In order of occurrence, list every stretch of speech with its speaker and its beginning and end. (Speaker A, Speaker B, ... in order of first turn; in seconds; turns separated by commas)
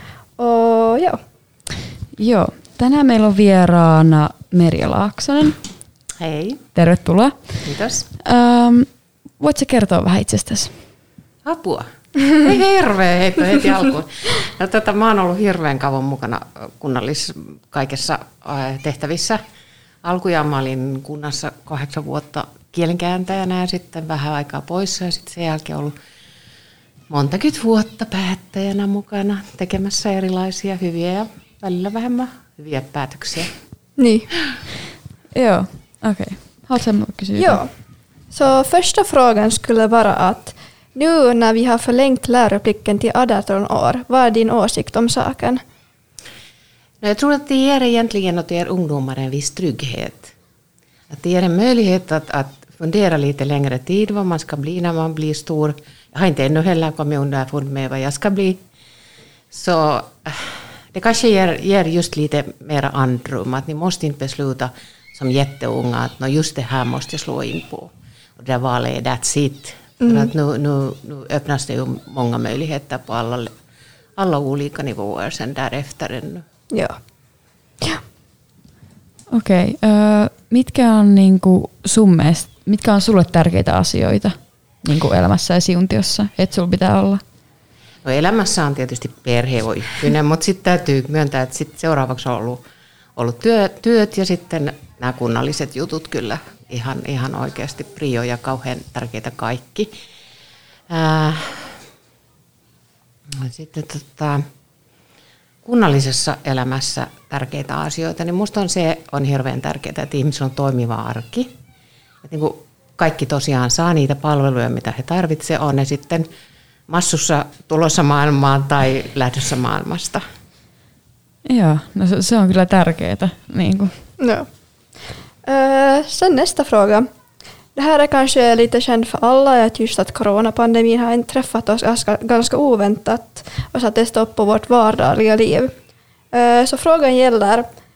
Speaker A: 0.4-1.2, Speaker B: 2.2-5.6, Speaker C: 6.2-6.6, Speaker B: 6.8-10.8, Speaker C: 7.7-8.1, Speaker C: 11.4-19.4, Speaker C: 20.0-25.9, Speaker C: 27.1-33.5, Speaker A: 34.0-34.3, Speaker B: 35.3-37.6, Speaker A: 37.4-37.7, Speaker A: 38.3-45.6, Speaker C: 47.0-50.3, Speaker C: 51.1-58.6, Speaker C: 59.5-73.5, Speaker A: 70.0-70.3, Speaker C: 74.2-76.4, Speaker A: 76.7-77.0, Speaker B: 79.3-87.2, Speaker C: 88.0-92.6, Speaker C: 93.2-99.9, Speaker C: 100.9-101.8, Speaker C: 103.3-104.4, Speaker C: 105.7-111.5, Speaker C: 112.2-116.3, Speaker C: 116.9-120.2, Speaker B: 121.5-124.0, Speaker A: 124.2-127.1, Speaker A: 127.8-135.7, Speaker A: 136.3-137.7